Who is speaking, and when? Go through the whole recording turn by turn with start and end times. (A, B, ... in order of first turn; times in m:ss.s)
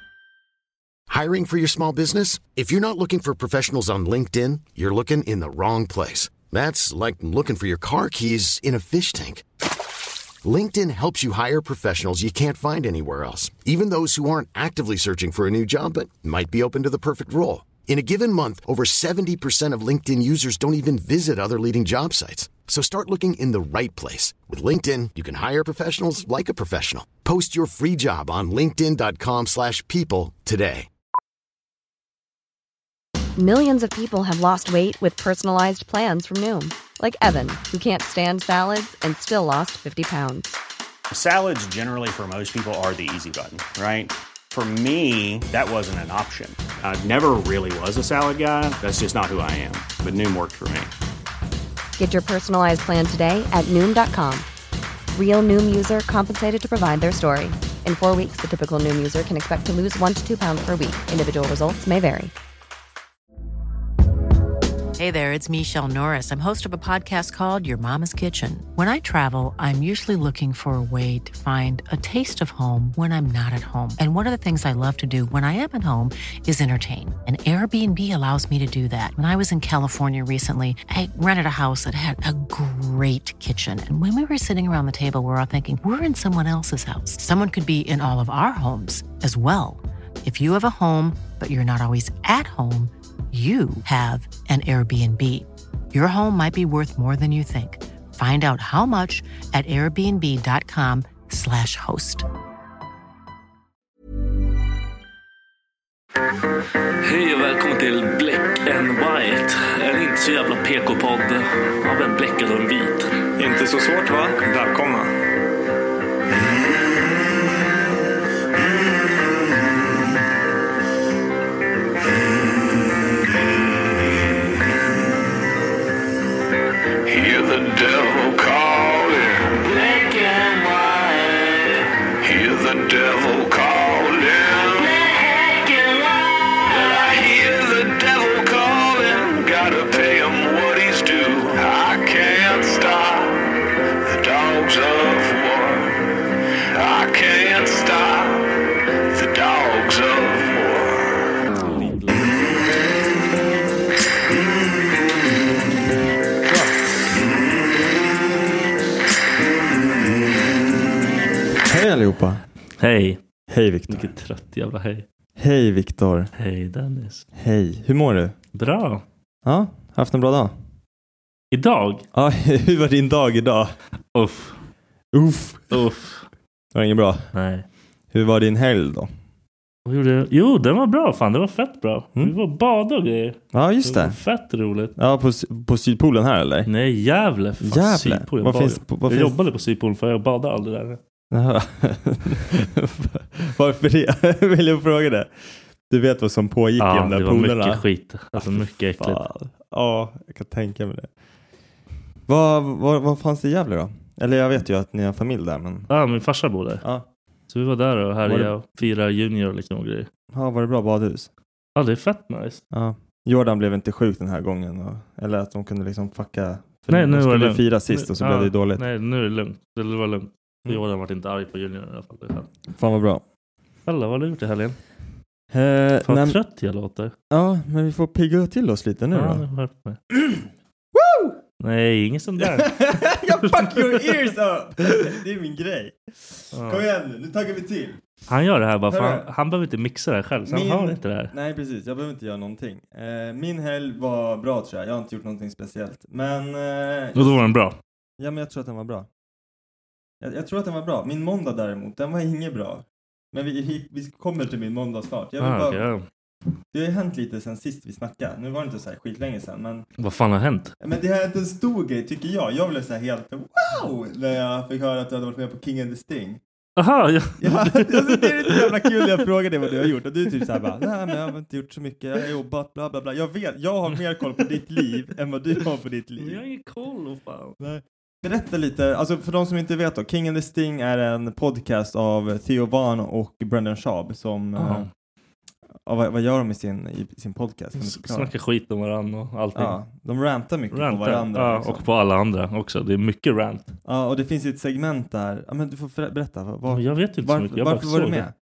0:01.1-0:09.4 A
0:10.4-0:30.9 A
0:33.4-0:40.6 B
0:41.1-0:50.9 C
0:52.0-0:54.5 B
0:55.1-1:02.3 B
1:05.0-1:42.3 D
1:47.0-1:53.2 E
1:53.4-1:55.1 F
2:07.0-2:26.1 G
2:26.7-2:31.3 G
2:31.5-2:32.7 E
2:41.6-2:42.4 F
2:42.8-2:43.2 E
2:43.5-2:44.2 F
2:43.9-2:45.0 E
2:45.4-2:46.3 F
2:46.3-2:47.2 E
2:47.4-2:48.3 F
2:48.5-2:49.0 E
2:49.4-2:50.5 F
2:51.5-2:52.0 E
2:52.1-2:53.7 F
2:54.1-2:54.6 E
2:55.1-2:55.8 F
2:55.7-2:56.3 E
2:56.7-2:57.2 F
2:57.3-2:57.6 E
2:58.1-2:59.1 F
2:59.8-3:04.9 E
3:03.5-3:04.2 F
3:05.0-3:06.7 F
3:06.6-3:11.0 E
3:07.6-3:09.4 F
3:11.3-3:15.3 F
3:15.9-3:21.1 F
3:16.8-3:19.2 E
3:22.3-3:25.9 F
3:25.9-3:26.8 E
3:26.8-3:27.1 F
3:27.5-3:30.1 E
3:28.2-3:28.5 F
3:30.3-3:31.3 F
3:31.8-3:32.6 E
3:32.7-3:38.8 F
3:36.9-3:42.5 E
3:42.7-3:43.2 F
3:43.8-3:44.8 E
3:45.5-3:46.4 F
3:46.0-3:47.1 E
3:47.3-3:49.4 F
3:49.1-3:50.0 E
3:50.1-3:50.4 F
3:50.9-3:51.4 F
3:51.6-3:54.2 E
3:52.4-3:58.0 F
3:56.5-3:56.8 E
3:58.3-4:01.3 E
3:58.9-3:59.3 F
4:00.4-4:07.4 F
4:07.1-4:07.8 E
4:08.2-4:09.1 F
4:10.2-4:15.8 F
4:15.4-4:16.0 E
4:16.7-4:19.9 F
4:20.0-4:20.7 E
4:20.8-4:26.4 F
4:26.8-4:29.2 E
4:27.4-4:36.4 F
4:30.4-4:31.2 E
4:36.2-4:37.6 E
4:37.6-4:44.9 F
4:44.6-4:44.9 E
4:45.8-4:48.3 F
4:47.8-4:49.8 E
4:49.5-4:51.8 F
4:50.7-4:53.7 E
4:53.8-4:58.3 F
4:56.7-4:58.3 E